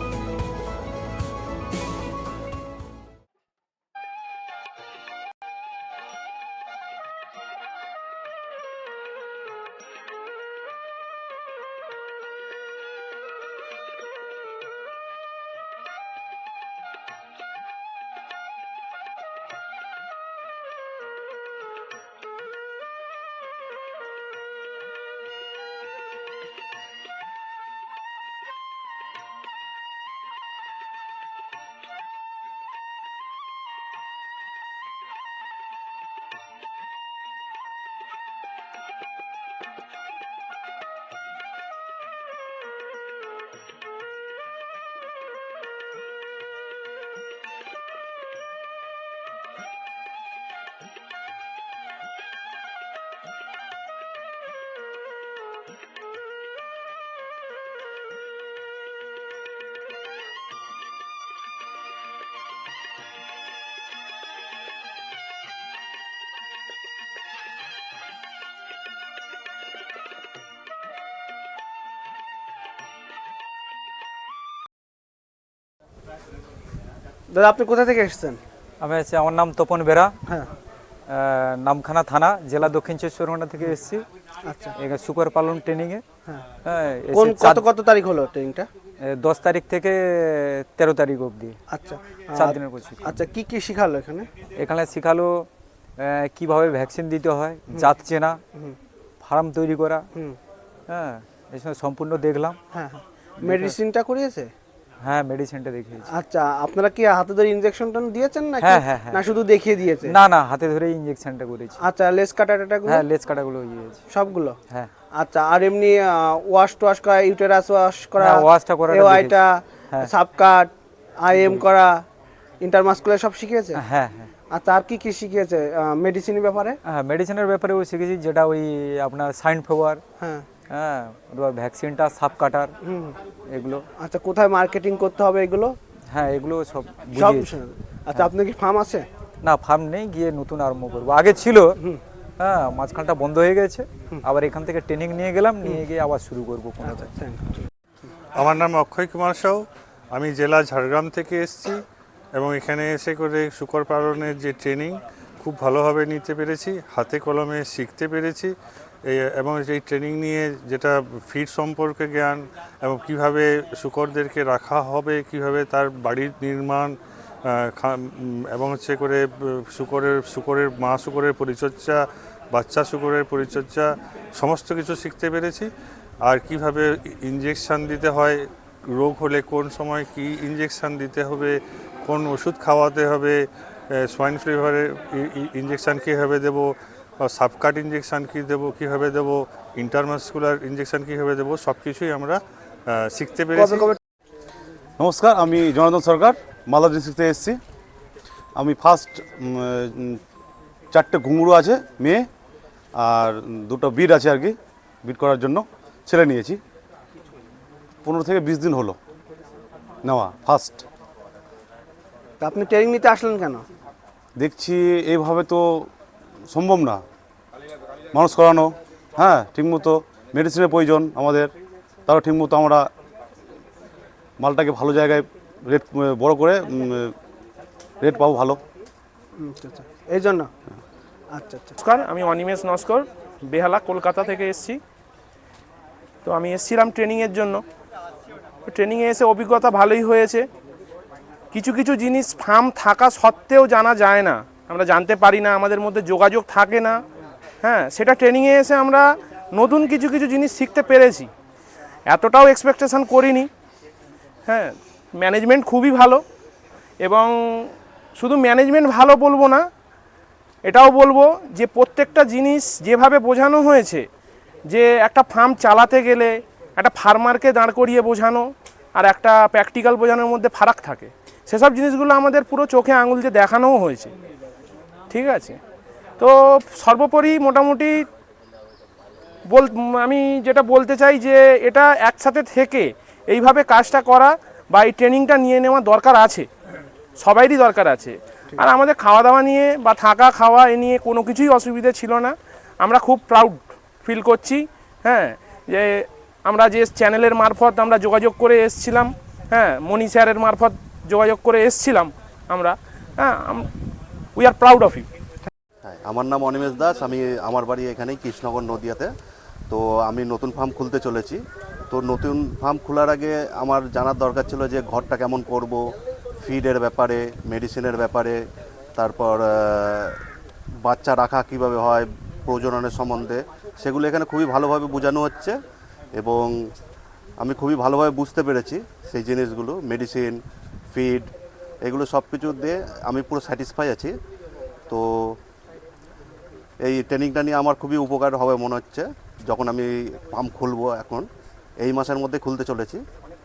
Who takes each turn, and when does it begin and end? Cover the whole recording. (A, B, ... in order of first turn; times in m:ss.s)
1:17.3-1:18.4 A
1:18.8-1:20.1 B
1:21.1-1:24.0 B
1:24.4-1:24.7 A
1:24.8-1:26.0 B
1:26.6-1:27.6 B
1:27.1-1:28.7 A
1:29.0-1:31.6 B
1:31.7-1:34.3 A
1:32.3-1:33.1 B
1:34.6-1:35.5 B
1:36.0-1:38.4 B
1:39.2-1:40.1 B
1:40.9-1:42.6 B
1:42.7-1:44.5 A
1:43.4-1:43.7 B
1:45.0-1:46.1 B
1:46.1-1:50.1 A
1:48.6-1:49.2 B
1:50.0-1:51.8 B
1:51.8-1:53.0 A
1:52.9-1:54.0 B
1:54.1-1:54.6 A
1:55.1-2:00.7 A
1:58.2-1:59.4 B
2:01.2-2:02.0 A
2:01.4-2:01.6 B
2:02.6-2:03.8 A
2:03.8-2:04.3 B
2:04.5-2:06.8 A
2:06.8-2:10.0 B
2:10.2-2:10.4 A
2:10.7-2:12.7 B
2:12.8-2:13.2 A
2:13.5-2:13.8 B
2:14.0-2:15.8 A
2:16.1-2:17.5 B
2:17.1-2:19.1 A
2:19.4-2:21.8 B
2:22.4-2:27.1 B
2:26.8-2:27.7 A
2:28.4-2:31.8 C
2:32.3-2:38.5 C
2:39.1-2:55.7 C
2:56.2-3:14.0 C
3:13.6-3:14.0 A
3:15.0-3:17.6 D
3:18.5-3:20.2 D
3:20.9-3:22.3 D
3:23.0-3:26.6 D
3:28.0-3:29.0 D
3:30.0-3:30.8 D
3:32.4-3:33.6 A
3:34.4-3:35.9 D
3:36.5-3:37.0 D
3:38.1-3:41.5 D
3:42.1-3:42.9 D
3:44.4-3:47.2 D
3:48.0-3:48.6 D
3:49.4-3:50.5 A
3:51.3-3:51.7 A
3:51.8-3:54.8 E
3:56.2-3:57.6 E
3:58.6-4:00.4 E
4:01.5-4:07.0 E
4:07.6-4:11.3 E
4:12.1-4:13.5 E
4:14.5-4:16.2 E
4:17.0-4:19.6 E
4:20.6-4:24.0 E
4:24.7-4:34.1 E
4:35.1-4:35.6 E
4:36.2-4:38.0 E
4:39.5-4:46.4 E
4:47.2-5:03.7 E
5:04.4-5:05.1 E
5:05.8-5:09.1 F
5:09.7-5:15.8 F
5:16.4-5:18.4 F
5:18.9-5:20.2 F
5:20.8-5:25.6 F
5:26.1-5:26.5 F
5:27.4-5:30.4 F
5:30.9-5:34.1 F
5:34.9-5:35.3 F
5:36.8-5:41.2 F
5:41.8-5:43.0 F